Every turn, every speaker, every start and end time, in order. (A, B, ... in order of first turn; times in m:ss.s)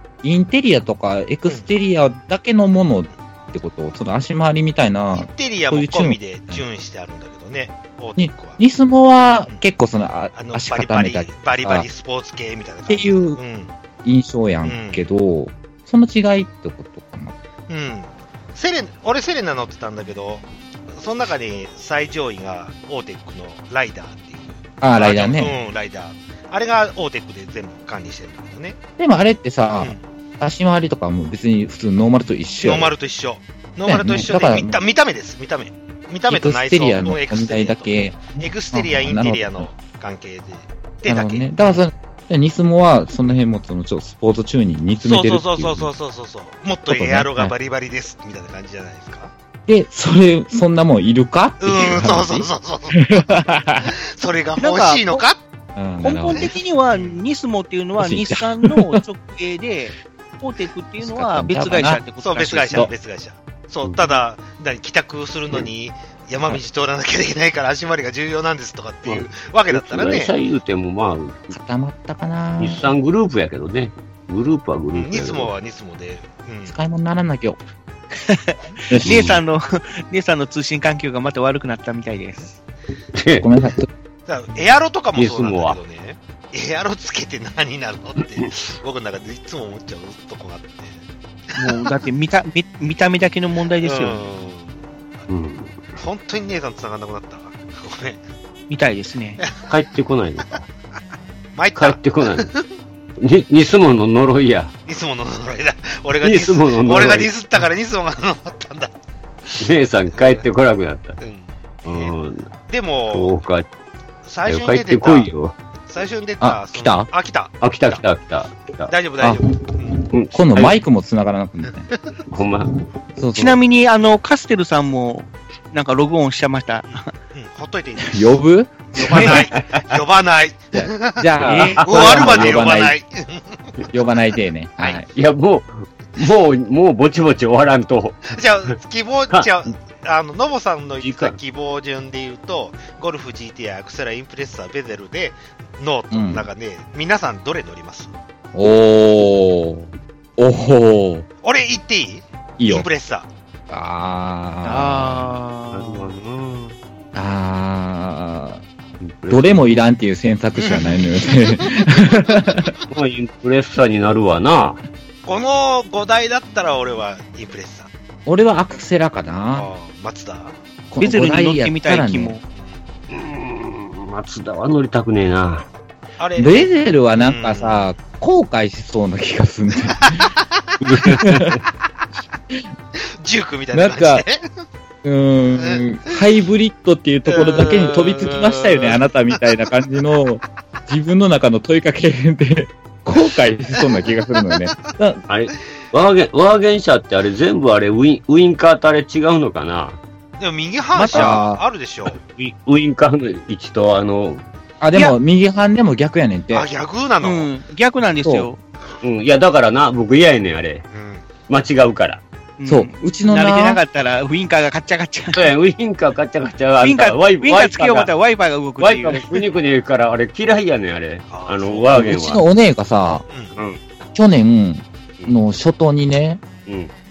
0:00.2-0:06.6 A
0:05.1-0:08.6 B
0:08.2-0:11.9 A
0:10.3-0:13.7 B
0:12.9-0:13.4 A
0:14.0-0:17.4 A
0:14.6-0:15.0 B
0:17.7-0:28.8 B
0:24.8-0:25.6 A
0:29.0-0:32.9 A
0:29.7-0:30.0 B
0:32.6-0:41.8 B
0:33.9-0:34.8 A
0:36.3-0:39.7 A
0:41.1-0:45.9 A
0:45.0-0:49.3 B
0:46.9-0:47.5 A
0:49.7-0:53.9 A
0:51.6-0:55.4 B
0:54.6-0:55.2 C
0:55.8-0:56.5 A
0:56.0-1:02.9 C
0:56.3-0:57.2 B
0:58.0-0:59.0 A
1:01.0-1:02.0 A
1:02.2-1:10.3 B
1:09.0-1:11.6 D
1:11.5-1:12.9 A
1:12.6-1:15.5 D
1:14.9-1:16.7 B
1:16.6-1:17.6 A
1:18.2-1:22.6 C
1:18.9-1:19.2 A
1:19.0-1:19.4 D
1:23.1-1:23.5 D
1:23.4-1:23.9 A
1:24.3-1:31.0 B
1:25.2-1:25.8 D
1:31.5-1:31.8 B
1:31.6-1:34.2 C
1:33.8-1:35.2 B
1:35.3-1:36.0 D
1:36.0-1:38.2 B
1:38.7-1:39.4 C
1:39.4-1:39.7 B
1:39.7-1:40.6 D
1:41.5-1:42.6 B
1:41.7-1:42.5 D
1:43.2-1:44.7 D
1:44.8-1:48.9 B
1:46.2-1:47.3 D
1:49.4-1:50.4 B
1:49.6-1:51.2 D
1:51.2-1:52.1 B
1:51.8-1:52.5 D
1:52.7-1:53.4 B
1:53.1-1:53.7 D
1:54.2-1:55.3 B
1:54.4-1:55.5 D
1:55.8-1:58.0 B
1:56.4-1:57.1 A
1:57.6-1:58.9 D
1:58.9-2:00.1 B
2:00.1-2:00.8 D
2:00.3-2:01.9 A
2:01.9-2:02.1 B
2:02.3-2:02.7 D
2:03.2-2:03.6 A
2:03.3-2:07.1 C
2:07.3-2:08.4 B
2:08.0-2:09.3 A
2:08.9-2:11.3 B
2:09.0-2:09.5 C
2:09.5-2:10.0 D
2:10.7-2:13.0 A
2:11.4-2:12.7 D
2:11.4-2:11.8 C
2:11.8-2:14.0 B
2:13.9-2:15.1 A
2:15.1-2:18.7 D
2:18.3-2:28.1 B
2:21.0-2:21.4 D
2:26.1-2:26.5 A
2:28.5-2:31.3 A
2:31.4-2:33.3 B
2:32.6-2:32.9 A
2:33.7-2:35.4 A
2:34.6-2:36.1 C
2:35.7-2:36.8 D
2:37.1-2:38.6 A
2:39.0-2:39.8 D
2:39.3-2:42.7 A
2:40.6-2:42.7 B
2:42.9-2:44.8 D
2:45.2-2:47.9 B
2:48.2-2:49.7 A
2:49.5-2:50.5 B
2:50.9-2:52.4 A
2:51.0-2:52.4 C
2:52.5-2:52.8 B
2:53.1-2:55.7 D
2:56.2-2:57.9 B
2:56.4-3:00.3 A
2:59.9-3:00.4 B
3:00.8-3:01.5 A
3:00.8-3:01.6 D
3:03.2-3:04.4 B
3:03.7-3:04.2 A
3:05.0-3:15.2 A
3:05.6-3:06.2 B
3:07.3-3:09.4 B
3:13.7-3:14.6 B
3:15.3-3:20.0 D
3:20.4-3:22.2 B
3:21.0-3:21.3 C
3:21.1-3:21.6 A
3:22.1-3:24.4 D
3:24.8-3:26.7 A
3:26.5-3:27.5 B
3:27.2-3:28.6 C
3:28.2-3:28.5 A
3:29.0-3:30.8 D
3:30.9-3:31.2 B
3:31.5-3:32.2 D
3:32.6-3:35.5 C
3:32.7-3:33.8 A
3:35.3-3:38.1 D
3:36.8-3:39.4 C
3:38.8-3:42.4 D
3:41.3-3:42.0 B
3:41.9-3:43.2 A
3:43.3-3:43.5 B
3:43.5-3:43.8 D
3:44.1-3:46.4 A
3:46.6-3:46.9 D